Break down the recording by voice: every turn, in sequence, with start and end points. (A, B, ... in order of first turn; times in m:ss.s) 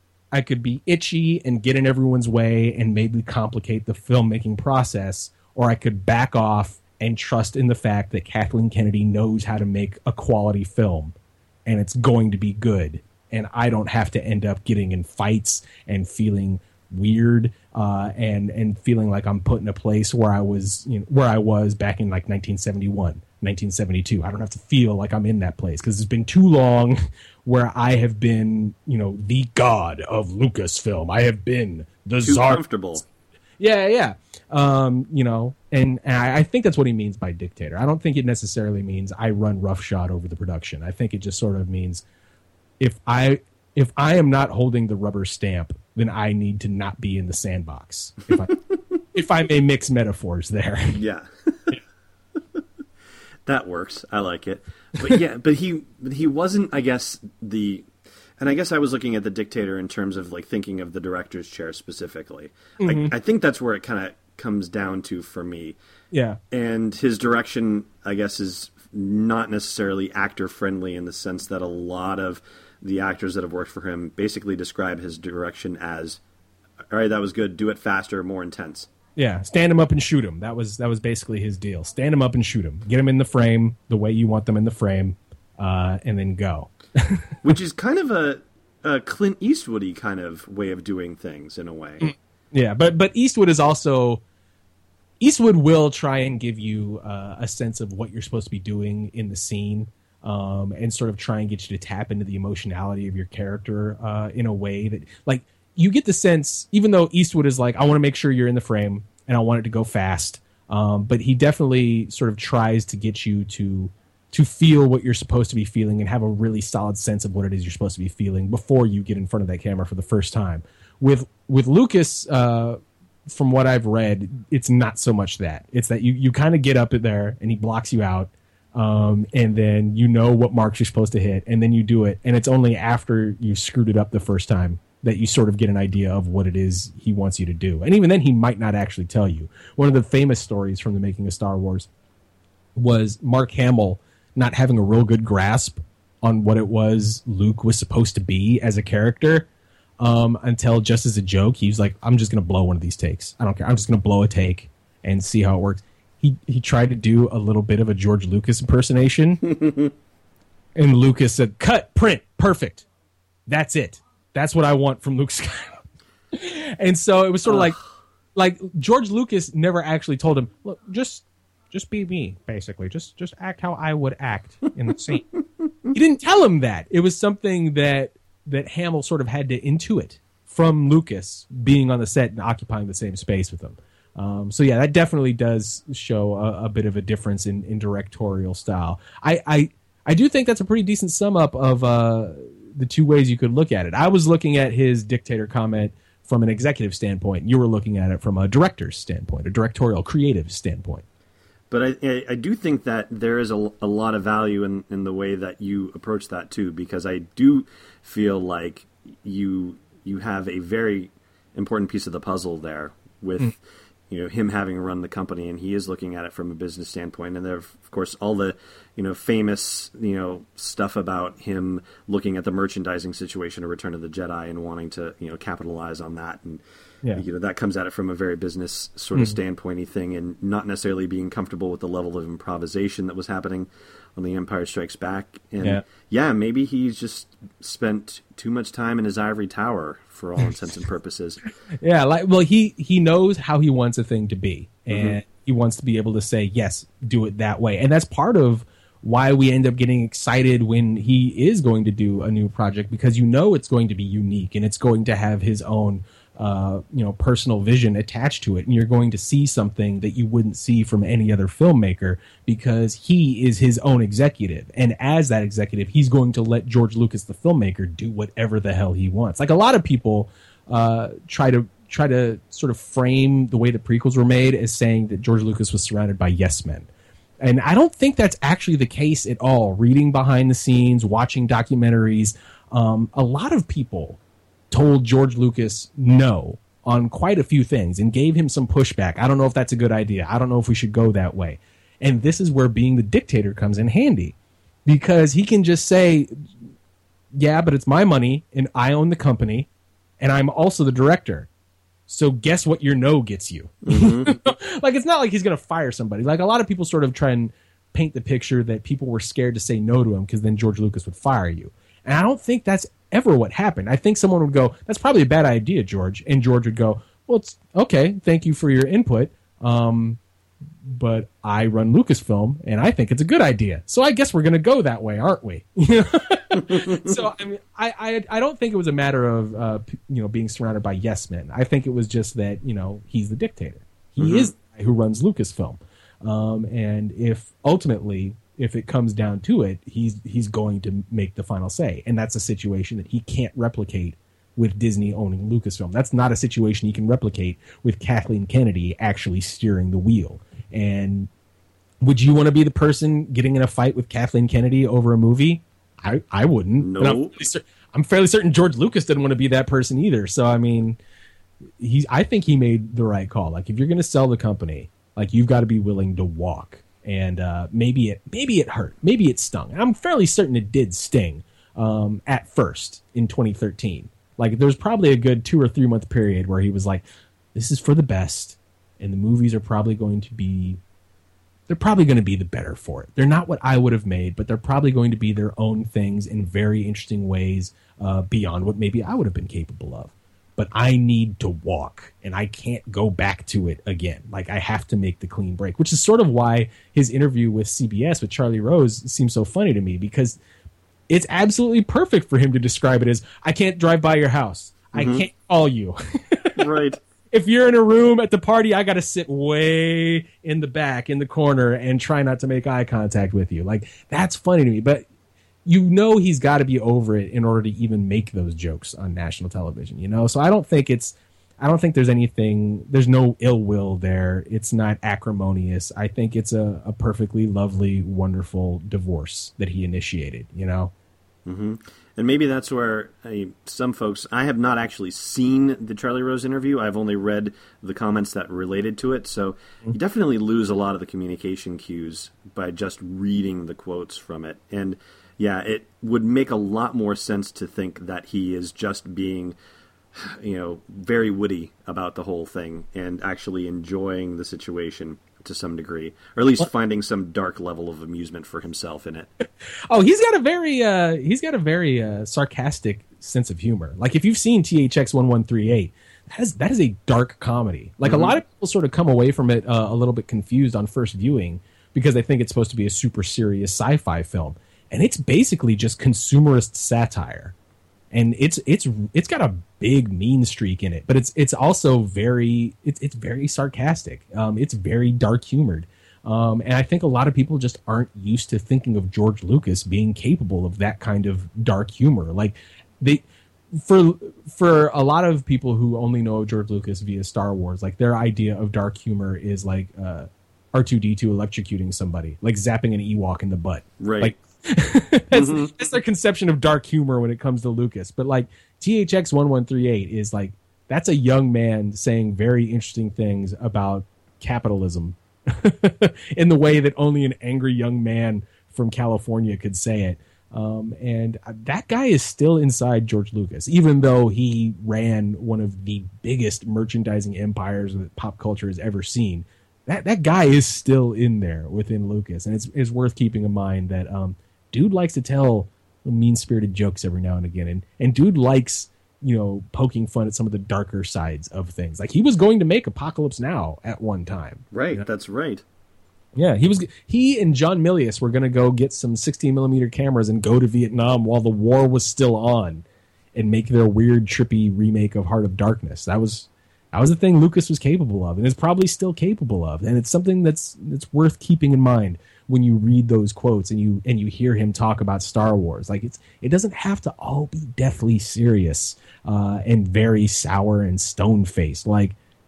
0:00.3-0:11.2 A
0:11.7-0:32.6 A
0:32.2-0:33.0 B
0:33.6-0:42.0 A
0:42.8-0:48.6 A
0:49.1-0:51.0 A
0:50.9-0:51.7 B
0:53.5-0:57.9 B
0:58.4-1:05.8 B
1:02.8-1:03.1 A
1:06.1-1:06.4 A
1:06.5-1:16.2 B
1:16.9-1:18.9 B
1:19.2-1:27.4 A
1:27.4-1:32.1 B
1:32.0-1:34.2 A
1:35.2-2:21.9 A
2:22.8-2:29.5 A
2:30.0-2:39.4 A
2:39.5-2:39.9 B
2:40.8-2:42.9 A
2:43.5-2:47.8 A
2:48.4-2:55.2 A
2:55.9-3:21.0 A
3:21.7-3:46.6 B
3:47.1-4:01.4 B
4:01.7-4:36.9 A
4:04.9-4:05.2 B
4:37.4-4:44.2 A
4:44.7-4:56.5 A
4:57.4-4:59.7 A
5:00.2-5:01.5 A
5:02.1-5:20.2 A
5:03.9-5:04.4 B
5:20.8-5:51.3 A
5:26.5-5:27.2 B
5:34.2-5:34.5 B
5:52.0-6:01.0 A
5:56.8-5:57.4 B
6:01.8-6:20.8 A
6:21.7-6:40.4 A
6:41.1-6:46.7 A
6:45.0-6:45.3 B
6:46.6-6:47.0 B
6:47.3-6:55.1 A
6:55.6-7:10.9 A
7:11.5-7:29.6 B
7:30.2-7:39.3 B
7:39.4-7:57.5 A
7:48.0-7:48.4 B
7:58.1-9:05.0 A
8:24.0-8:24.4 B
8:25.3-8:25.7 B
9:04.7-9:05.6 B
9:06.4-9:32.2 A